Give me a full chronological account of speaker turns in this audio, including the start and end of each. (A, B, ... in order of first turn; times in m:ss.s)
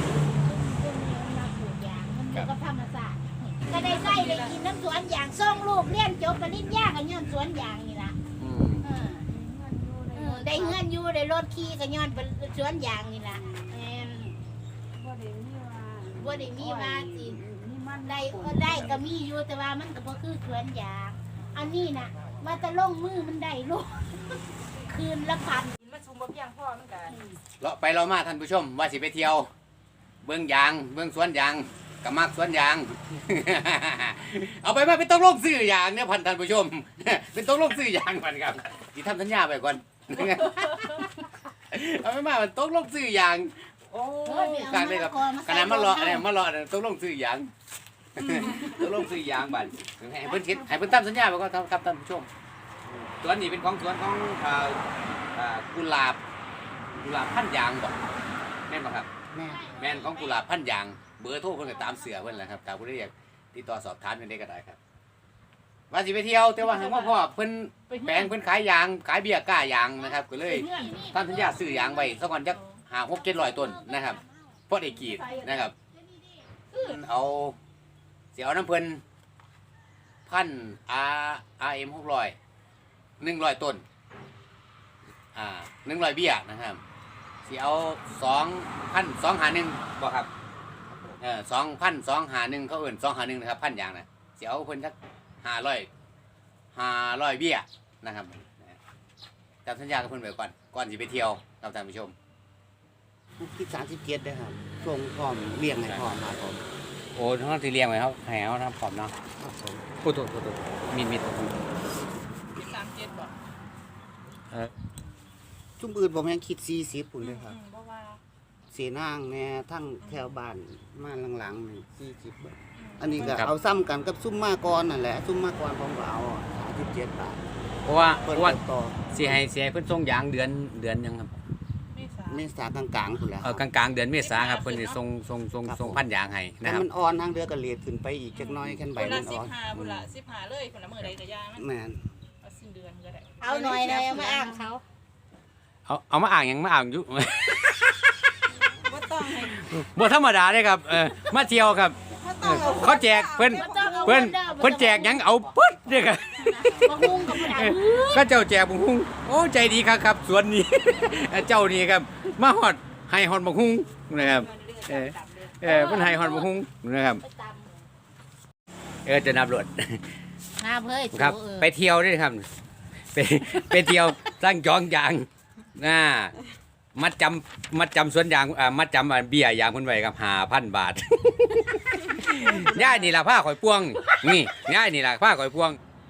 0:00.3-0:08.2 A
0:03.8-0:04.6 B
0:08.4-0:09.0 C
0:08.8-0:09.3 A
0:09.1-0:10.8 D
0:10.1-0:14.4 A
0:13.3-0:13.7 D
0:14.9-0:19.0 D
0:16.1-0:17.4 A
0:18.0-0:25.8 A
0:25.8-0:27.2 B
0:27.1-0:27.4 D
0:27.6-0:29.5 C
0:30.2-0:47.5 C
0:44.2-0:46.3 A
0:48.2-0:52.3 C
0:50.2-0:50.9 A
0:53.2-0:54.8 C
0:55.3-0:56.2 C
0:56.9-0:58.0 C
0:58.7-0:59.1 C
0:59.3-0:59.7 E
0:59.4-1:00.4 A
0:59.7-1:04.8 C
1:05.9-1:15.8 C
1:06.6-1:07.2 B
1:07.9-1:08.3 B
1:10.4-1:12.1 A
1:10.7-1:11.0 B
1:15.2-1:15.6 B
1:16.8-1:17.6 C
1:18.3-1:19.0 C
1:20.3-1:22.4 C
1:23.2-1:23.8 C
1:25.4-1:26.8 C
1:27.5-1:30.3 C
1:31.2-1:35.9 C
1:36.7-1:38.8 C
1:39.6-1:42.1 C
1:43.4-1:46.6 E
1:45.8-1:46.2 C
1:47.2-1:49.1 C
1:49.4-1:49.9 E
1:50.0-1:51.7 C
1:52.5-1:53.4 B
1:55.8-1:57.6 E
1:57.2-1:58.2 B
1:58.7-2:07.5 E
2:02.8-2:03.2 B
2:03.2-2:03.5 C
2:07.8-2:08.6 C
2:08.2-2:09.2 E
2:09.1-2:11.4 C
2:11.9-2:12.5 B
2:12.2-2:13.6 E
2:13.4-2:16.9 C
2:14.2-2:15.0 B
2:15.7-2:16.0 E
2:16.6-2:19.9 E
2:18.4-2:21.7 B
2:19.7-2:20.1 C
2:21.6-2:22.1 E
2:22.4-2:23.6 B
2:23.4-2:24.8 A
2:23.5-2:24.6 D
2:25.9-2:28.3 C
2:28.8-2:29.7 D
2:29.4-2:47.2 C
2:32.1-2:34.3 D
2:33.5-2:35.3 A
2:36.4-2:38.3 A
2:44.1-2:46.1 D
2:45.6-2:46.5 A
2:47.2-2:47.9 A
2:49.0-2:50.1 C
2:50.6-2:51.7 A
2:51.1-2:52.5 C
2:53.1-2:56.4 C
2:57.0-3:05.8 C
3:02.5-3:03.1 E